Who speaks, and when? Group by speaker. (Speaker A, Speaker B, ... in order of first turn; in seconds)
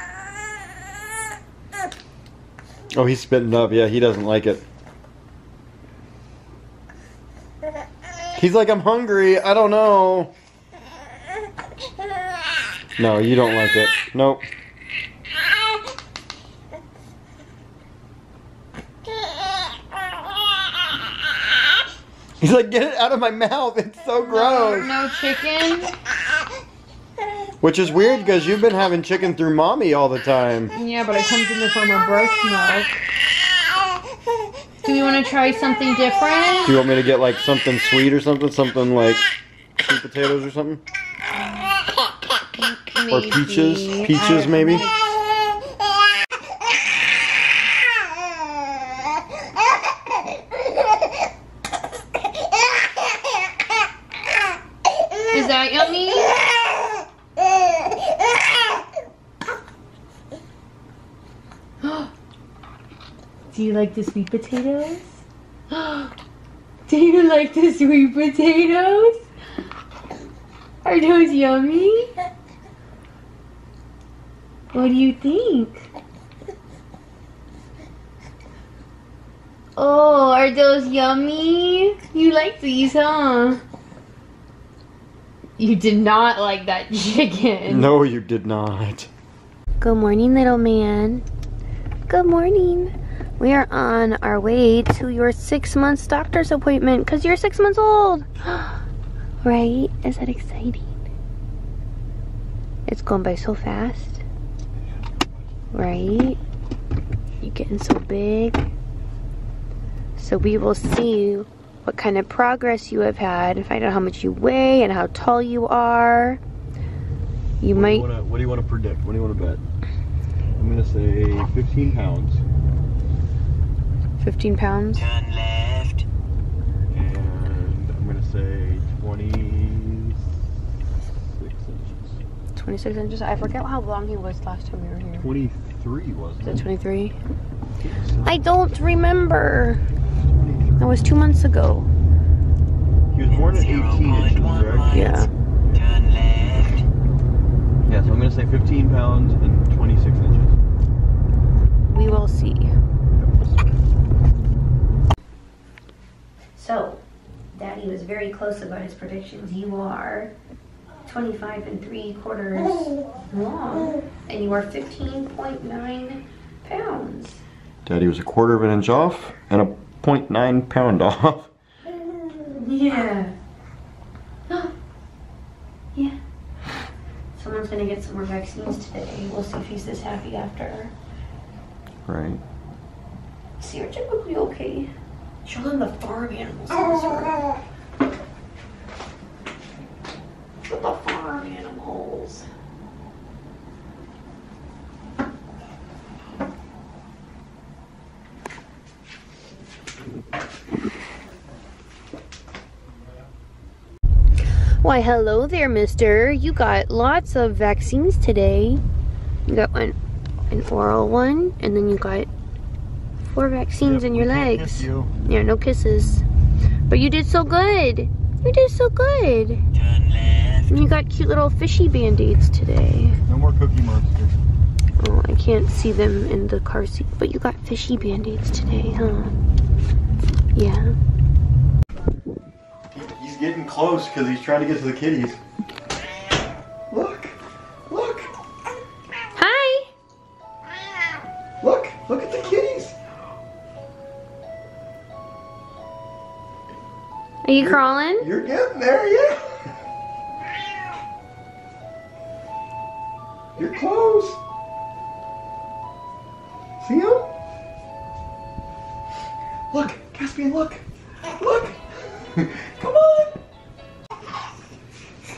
Speaker A: 2.9-4.6, 8.3-10.3, 13.0-14.4, 22.4-24.9, 27.6-30.7, 36.6-39.2, 39.8-40.8, 43.1-44.9, 87.7-89.1, 117.7-119.6, 120.6-122.4, 126.9-130.3, 131.1-132.2, 135.2-136.6, 137.9-138.3, 140.3-140.9, 143.1-145.2, 147.8-150.6, 167.8-171.5, 182.1-182.4, 213.8-215.1, 223.2-224.4, 232.9-235.4, 236.9-237.3, 237.9-238.3, 241.6-243.0, 247.6-249.6, 253.6-254.4, 256.8-257.3, 259.7-263.4
Speaker B: 24.2-25.9, 30.7-33.0, 34.8-36.8, 42.5-45.0, 55.3-56.4, 61.8-62.1, 63.5-66.1, 66.9-69.2, 70.8-72.1, 74.7-75.8, 79.8-83.6, 85.6-87.9, 89.8-91.2, 92.1-98.8, 99.4-101.0, 102.8-104.2, 105.7-106.4, 107.4-108.7, 110.2-116.4, 117.6-118.1, 124.2-125.1, 132.5-135.3, 136.4-137.2, 138.2-139.8, 140.8-141.9, 144.9-145.3, 151.9-152.7, 156.5-157.0, 157.5-160.3, 161.0-167.4, 172.4-173.3, 177.3-180.9, 183.6-184.9, 185.4-187.6, 190.6-192.5, 204.8-208.8, 209.4-210.0, 210.5-212.3, 213.2-216.2, 216.9-219.6, 220.7-223.2, 225.0-229.4, 230.5-230.9, 239.3-239.9, 247.4-248.3